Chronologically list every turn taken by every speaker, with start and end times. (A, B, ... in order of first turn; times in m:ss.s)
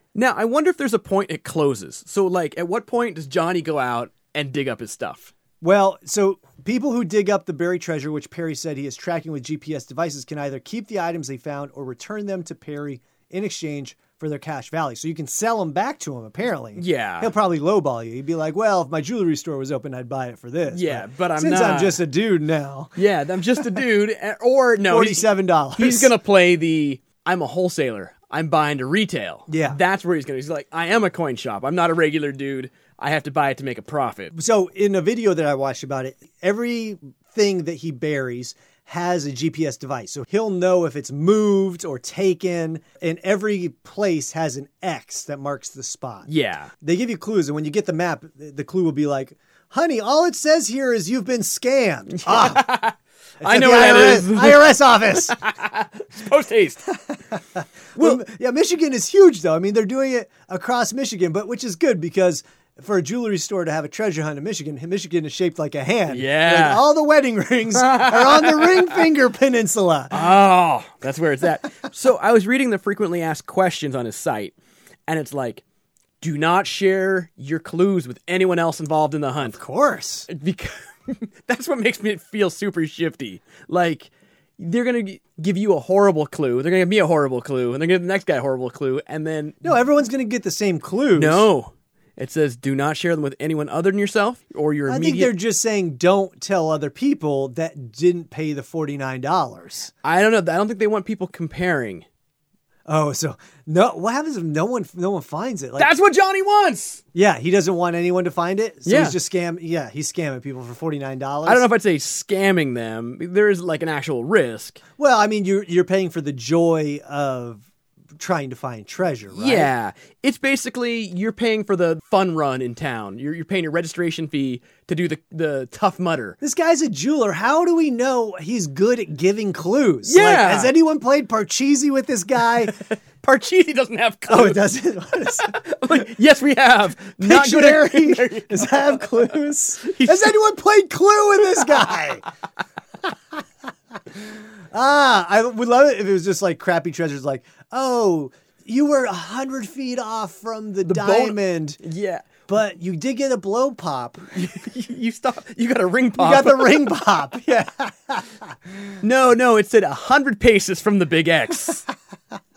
0:00.1-0:05.3 A
0:05.6-0:23.0 B
0:16.8-0:17.3 A
0:20.7-0:22.0 A
0:23.0-0:34.3 A
0:24.8-0:26.2 B
0:29.5-0:29.8 B
0:34.3-0:46.3 B
0:46.3-0:46.7 A
0:46.8-0:52.7 B
0:52.1-0:56.8 A
0:53.4-0:55.4 B
0:56.9-1:10.3 B
0:58.0-0:58.2 A
1:06.1-1:06.8 A
1:07.7-1:09.0 A
1:10.1-1:14.6 A
1:15.1-1:15.6 A
1:16.2-1:19.6 A
1:19.4-1:20.3 B
1:20.3-1:29.7 A
1:29.6-1:31.5 B
1:31.2-1:35.3 A
1:34.9-1:39.9 B
1:40.0-1:42.0 A
1:42.9-1:45.9 B
1:45.8-1:47.0 A
1:47.1-1:51.7 B
1:48.9-1:49.2 A
1:51.4-1:54.8 A
1:55.0-1:59.7 B
1:59.3-2:06.4 A
2:06.4-2:12.8 B
2:10.1-2:10.7 A
2:12.7-2:14.6 A
2:14.3-2:15.6 B
2:15.4-2:19.2 A
2:17.1-2:22.3 B
2:19.8-2:20.3 A
2:23.0-2:23.4 B
2:24.2-2:31.8 B
2:30.8-2:32.3 A
2:32.5-2:34.4 B
2:34.3-2:36.9 A
2:36.2-2:38.5 B
2:39.0-2:41.8 A